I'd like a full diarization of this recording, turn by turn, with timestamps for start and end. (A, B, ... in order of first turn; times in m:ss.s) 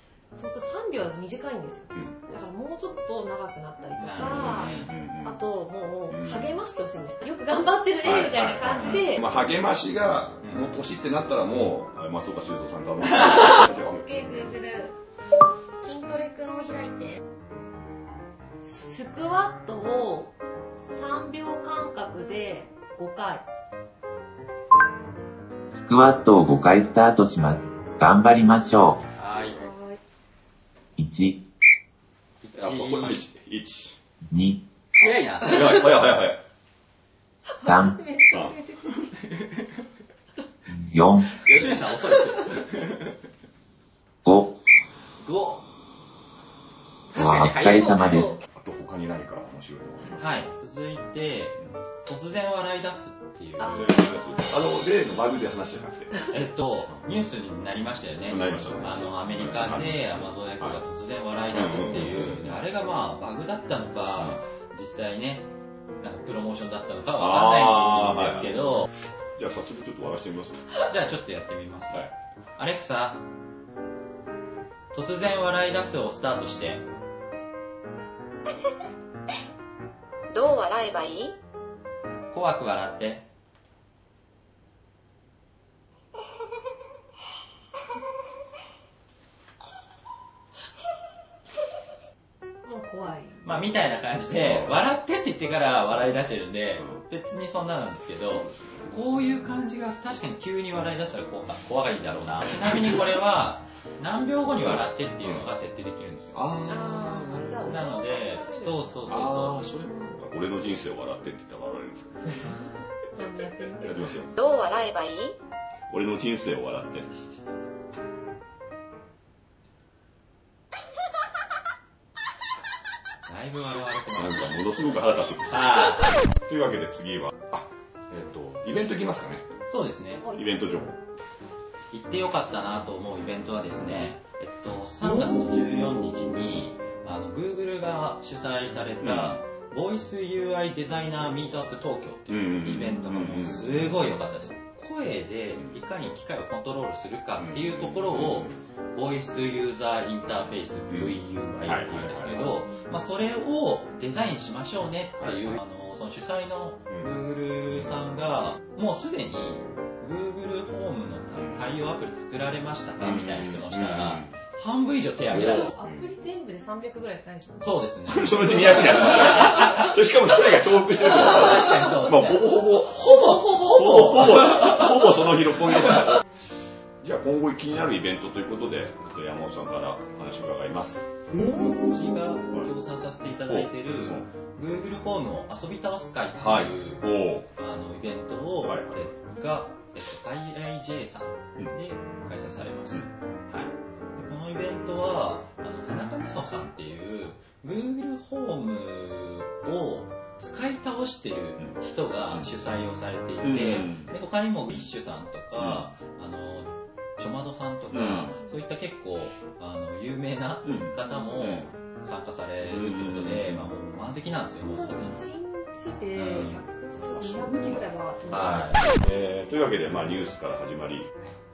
0:00.3-0:09.2 A
0:04.0-0:04.9 B
0:04.2-0:05.4 C
0:06.1-0:06.5 C
0:08.0-0:14.5 C
0:08.7-0:09.0 B
0:10.4-0:10.7 B
0:13.2-0:14.9 A
0:15.8-0:17.2 A
0:18.6-0:20.3 A
0:20.9-0:23.4 A
0:25.7-0:29.0 D
0:29.2-0:29.6 B
0:29.6-0:30.0 A
0:31.0-0:31.4 D
0:32.4-0:33.2 B
0:32.6-0:34.0 C
0:34.3-0:34.6 D
0:35.0-0:35.9 B
0:35.4-0:36.4 C
0:37.6-0:39.1 A
0:37.6-0:38.0 D
0:38.3-0:38.6 C
0:40.7-0:41.4 D
0:41.4-0:43.1 B
0:44.2-0:44.6 D
0:45.2-0:45.6 B
0:47.1-0:48.2 B
0:47.1-0:48.3 D
0:47.8-0:48.4 A
0:48.5-0:50.4 C
0:50.2-0:53.8 B
0:53.6-0:54.6 A
0:53.6-0:56.2 C
0:56.3-1:05.5 B
0:58.3-1:00.8 C
1:01.5-1:02.6 C
1:06.0-1:08.9 B
1:07.2-1:08.8 C
1:09.4-1:10.7 C
1:10.8-1:13.2 B
1:14.9-1:16.8 B
1:20.3-1:21.3 E
1:22.3-1:23.2 B
1:32.6-1:33.6 A
1:33.4-1:46.4 B
1:34.3-1:34.8 C
1:38.3-1:38.9 C
1:44.6-1:45.5 C
1:46.3-1:47.8 C
1:46.6-1:49.0 A
1:47.6-1:49.6 B
1:49.1-1:52.4 C
1:49.9-1:50.2 A
1:53.1-1:54.2 A
1:53.8-1:54.3 C
1:54.4-1:55.3 E
1:55.9-1:57.1 C
2:03.3-2:04.8 B
2:04.1-2:09.4 C
2:05.4-2:06.2 B
2:09.7-2:10.3 B
2:10.3-2:11.0 C
2:11.9-2:45.7 B
2:19.0-2:19.4 C
2:22.3-2:23.8 C
2:27.4-2:28.6 C
2:30.9-2:32.6 C
2:35.2-2:35.6 C
2:41.3-2:41.7 C
2:43.0-2:44.3 C
2:45.3-2:46.1 C
2:45.3-2:47.7 A
2:47.6-2:49.9 B
2:48.1-2:56.2 C
2:50.9-2:54.5 B
2:57.0-3:01.0 C
3:01.5-3:07.0 B
3:03.5-3:04.2 C
3:06.4-3:07.5 C
3:07.6-3:35.2 B
3:08.6-3:09.1 C
3:23.4-3:24.1 C
3:25.6-3:25.8 C
3:27.9-3:28.3 C
3:28.2-3:28.6 A
3:30.6-3:31.7 C
3:32.6-3:33.7 C
3:34.8-3:39.0 A
3:36.1-3:36.6 B
3:37.0-3:37.9 C
3:38.3-3:38.8 B
3:39.0-3:41.1 C